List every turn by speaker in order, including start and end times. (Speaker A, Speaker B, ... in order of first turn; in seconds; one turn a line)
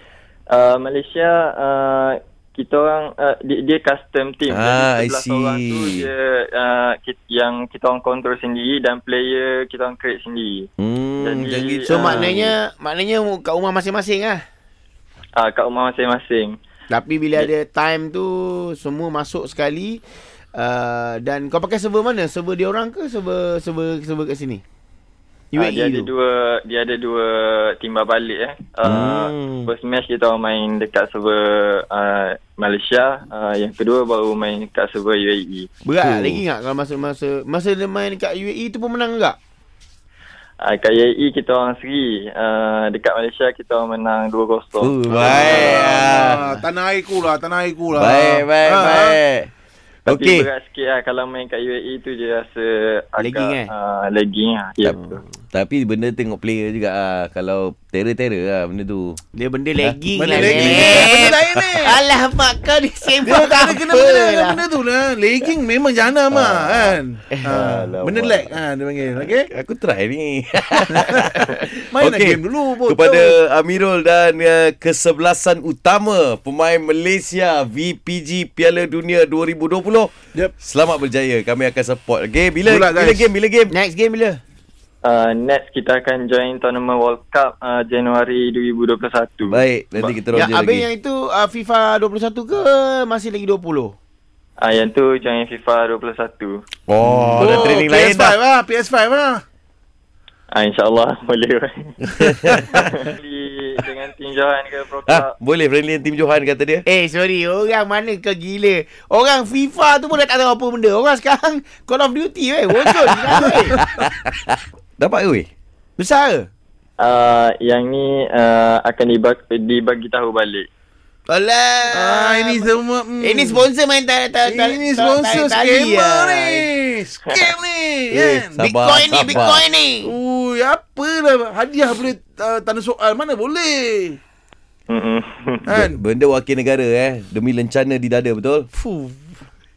Speaker A: 0.5-12.3
Speaker B: 4.5-6.1
Speaker B: 10.8-12.5
Speaker C: 11.9-14.4
Speaker A: 15.4-16.6
Speaker C: 16.9-20.0
Speaker C: 20.5-24.6
Speaker C: 25.5-26.1
Speaker A: 25.5-35.7
Speaker B: 28.8-29.7
Speaker C: 35.8-39.4
Speaker B: 36.0-36.4
Speaker A: 40.6-45.9
Speaker B: 44.8-46.4
Speaker D: 45.1-49.2
Speaker C: 46.2-46.6
Speaker B: 47.9-49.5
Speaker B: 50.0-50.5
Speaker A: 50.1-55.2
Speaker C: 53.2-53.7
Speaker B: 55.5-59.2
Speaker C: 59.3-64.6
Speaker B: 59.8-61.5
Speaker D: 60.1-62.0
Speaker D: 63.2-69.5
Speaker C: 67.5-68.3
Speaker B: 69.3-83.7
Speaker D: 70.9-73.3
Speaker D: 82.7-83.3
Speaker C: 83.7-84.4
Speaker A: 85.0-90.2
Speaker B: 89.5-90.8
Speaker C: 90.3-94.0
Speaker A: 94.6-96.6
Speaker B: 96.9-98.3
Speaker D: 97.3-99.4
Speaker A: 100.5-105.3
Speaker B: 102.1-102.9
Speaker B: 105.1-106.8
Speaker C: 106.8-113.8
Speaker B: 113.3-115.5
Speaker C: 116.0-116.5
Speaker A: 117.0-120.7
Speaker C: 121.3-126.7
Speaker D: 121.9-123.6
Speaker D: 124.4-128.6
Speaker B: 128.1-129.7
Speaker C: 128.6-130.1
Speaker D: 129.1-129.5
Speaker D: 130.0-134.2
Speaker A: 134.9-135.6
Speaker D: 135.7-136.0
Speaker B: 135.7-138.7
Speaker D: 138.8-139.2